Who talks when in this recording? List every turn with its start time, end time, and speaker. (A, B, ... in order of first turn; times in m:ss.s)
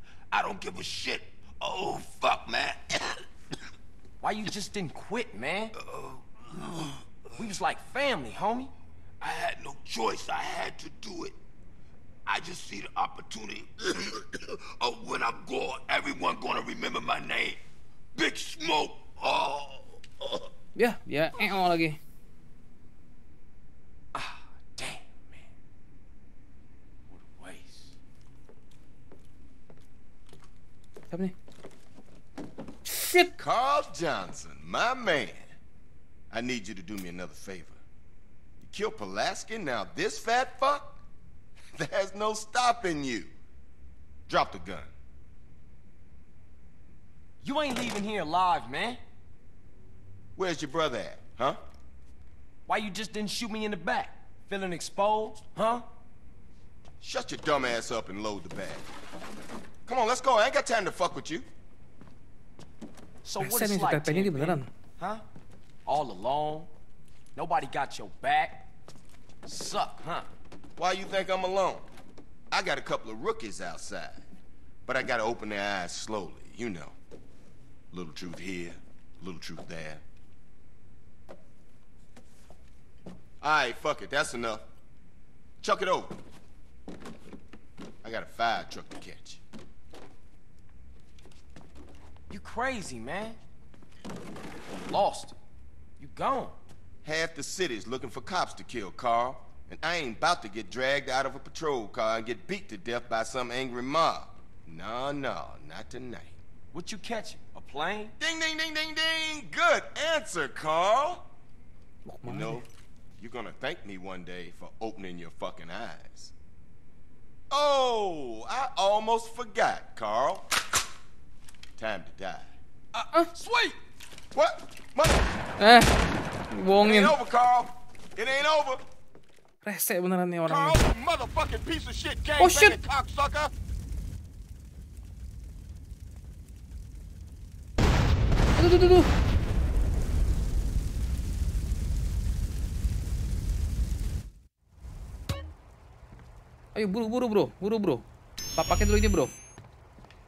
0:00.3-0:03.2 A
0:04.2-0:05.7 B
0:05.8-0:06.2 A
0:07.4-0:08.7 B
0:09.2-0:11.3 A
0:12.2-0:17.6 A
0:18.1-0:20.5 A
0:20.8-0:22.0 C
0:24.1-0:25.4 B
0:27.1-0:27.9 B
0:32.9-0:33.3 C
0:33.4-0:35.5 D
0:36.3-0:37.8 D
0:38.6-0:41.0 D
0:41.8-0:43.3 D
0:44.3-0:44.9 D
0:47.4-0:49.0 B
0:50.4-0:51.6 D
0:52.7-0:55.8 B
0:57.0-0:58.8 D
0:59.8-1:01.5 D
1:03.2-1:05.2 B
1:03.4-1:04.7 C
1:05.8-1:06.7 B
1:07.3-1:08.7 B
1:09.4-1:10.3 B
1:10.8-1:11.8 D
1:12.5-1:14.2 D
1:14.8-1:16.9 D
1:17.9-1:20.0 D
1:23.4-1:24.7 D
1:25.6-1:26.2 D
1:28.0-1:29.4 D
1:32.3-1:33.4 B
1:34.9-1:35.3 B
1:36.0-1:36.6 B
1:37.0-1:46.4 D
1:46.7-1:48.1 B
1:48.2-1:51.3 D
1:52.0-1:52.6 C
1:52.2-1:52.6 D
1:53.2-1:56.3 D
1:57.5-2:00.5 D
2:01.8-2:02.5 D
2:02.9-2:03.8 B
2:04.3-2:05.2 D
2:05.6-2:05.9 C
2:06.5-2:07.1 C
2:06.8-2:08.8 D
2:09.6-2:10.8 C
2:10.5-2:13.5 D
2:12.4-2:12.8 C
2:18.6-2:19.1 C
2:26.7-2:28.0 C
2:28.6-2:29.3 C